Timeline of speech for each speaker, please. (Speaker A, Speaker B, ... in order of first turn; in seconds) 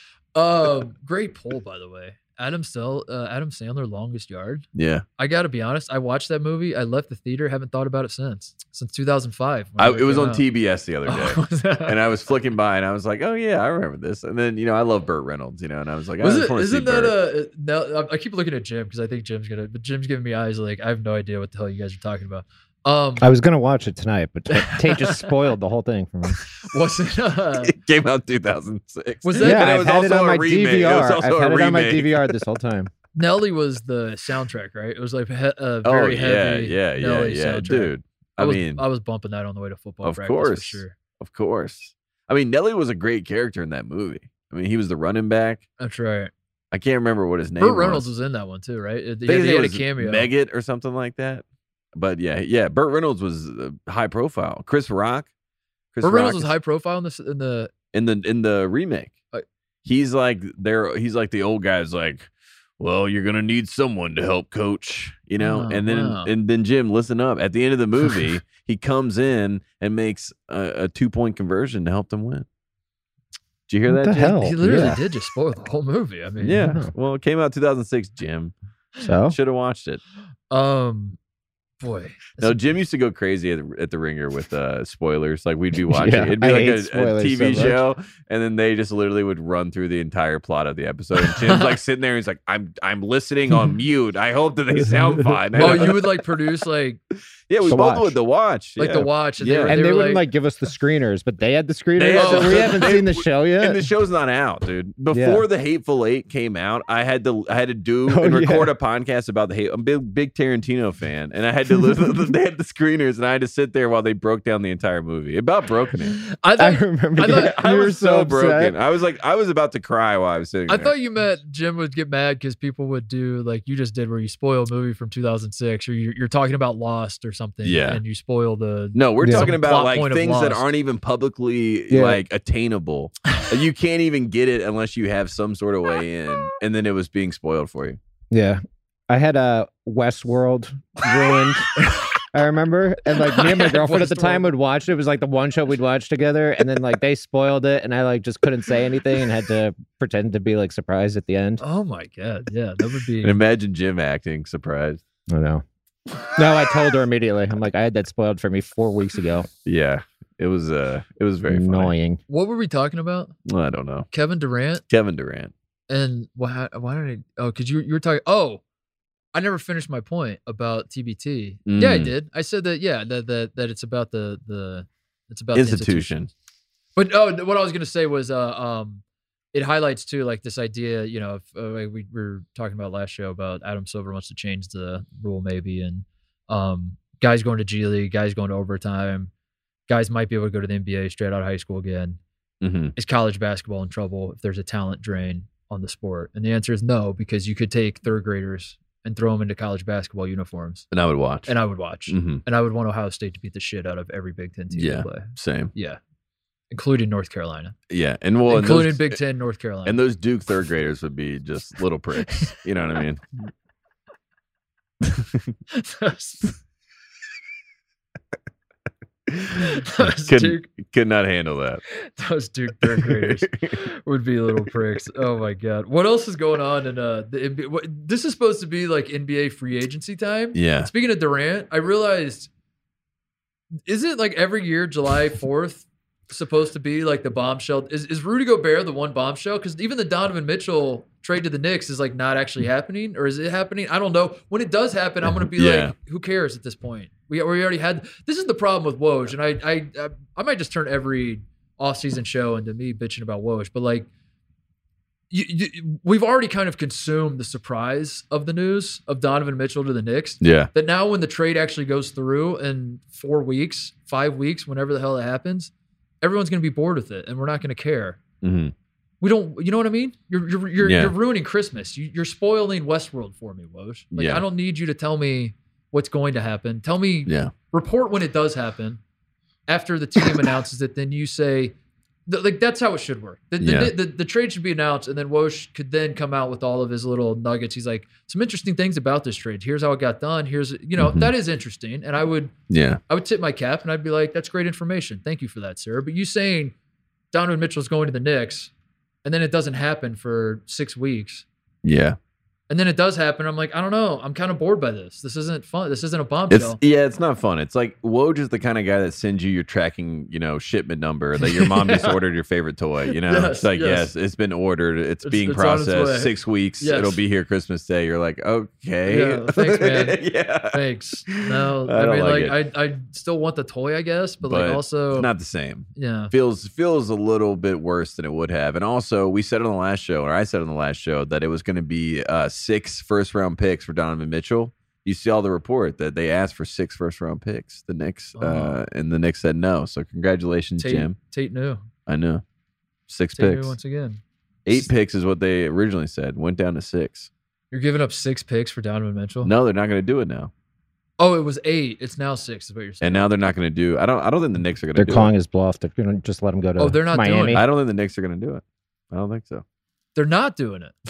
Speaker A: 0.3-4.7, 5.2-10.4, 11.1-12.0, 16.2-23.3, 24.5-25.4, 26.6-27.8, 29.2-29.7, 33.1-40.9, 45.8-46.3, 47.6-50.3, 56.0-57.7, 65.4-66.3, 74.3-76.8, 80.5-81.2, 81.8-82.6, 91.3-91.7, 95.5-97.0, 98.8-100.2, 102.1-102.9, 116.1-117.6, 120.7-130.7, 143.1-144.5, 151.6-153.4, 162.3-163.3, 164.1-164.8, 165.9-168.6, 169.3-176.2, 176.9-179.0, 179.5-189.3, 189.9-192.2, 192.9-200.9, 201.4-206.0, 206.7-207.8, 208.5-210.0, 212.3-212.5, 215.7-216.6, 219.6-220.7, 221.9-232.5, 233.8-254.1, 255.3-265.7, 266.2-268.2, 269.2-279.0, 279.7-281.7, 282.3-292.5, 293.1-296.7, 297.3-298.7, 299.2-301.4, 302.7-306.8, 311.4-312.2, 313.1-314.1, 315.2-317.2, 319.1-325.3, 325.9-326.3, 338.4-338.8, 340.8-341.8, 343.4-344.2, 347.7-349.5, 351.2-353.3, 356.8-357.6, 360.1-360.9
Speaker B: 4.7-5.0, 9.8-17.1, 27.6-32.3, 35.8-38.8, 40.0-45.6, 46.7-48.1, 49.2-51.4, 51.9-55.3, 55.9-56.5, 57.9-59.1, 59.8-72.5, 73.7-75.0, 76.4-78.5, 79.3-80.0, 82.4-96.0, 97.5-99.7, 102.0-116.2, 117.2-120.9, 127.6-128.0, 128.9-138.0, 153.2-155.0, 159.6-161.9, 163.5-164.1, 164.9-165.5, 171.7-172.1, 175.5-176.3, 192.6-192.9, 200.9-201.5, 202.1-202.4, 204.7-205.7, 207.9-209.2, 209.8-213.5, 215.1-215.5, 219.3-221.8, 222.9-223.7, 230.5-230.9, 245.4-245.9, 260.4-260.7, 268.4-268.7, 270.8-271.1, 274.1-274.4, 277.2-277.5, 283.6-283.9, 291.0-291.3, 292.7-293.0, 301.8-302.2, 306.5-322.6, 324.4-341.1, 342.1-342.4, 343.1-343.8, 344.6-347.3, 349.4-350.5, 353.0-355.3, 357.5-359.6
Speaker C: 23.2-26.4, 29.4-32.9, 73.9-75.0, 76.6-76.9, 79.0-79.3, 85.8-87.8, 94.8-95.9, 97.6-98.2, 99.7-103.8, 105.1-105.4, 108.1-108.7, 116.6-118.7, 129.2-129.5, 131.9-132.2, 138.3-151.6, 155.3-155.6, 156.3-159.5, 161.5-162.2, 354.9-357.6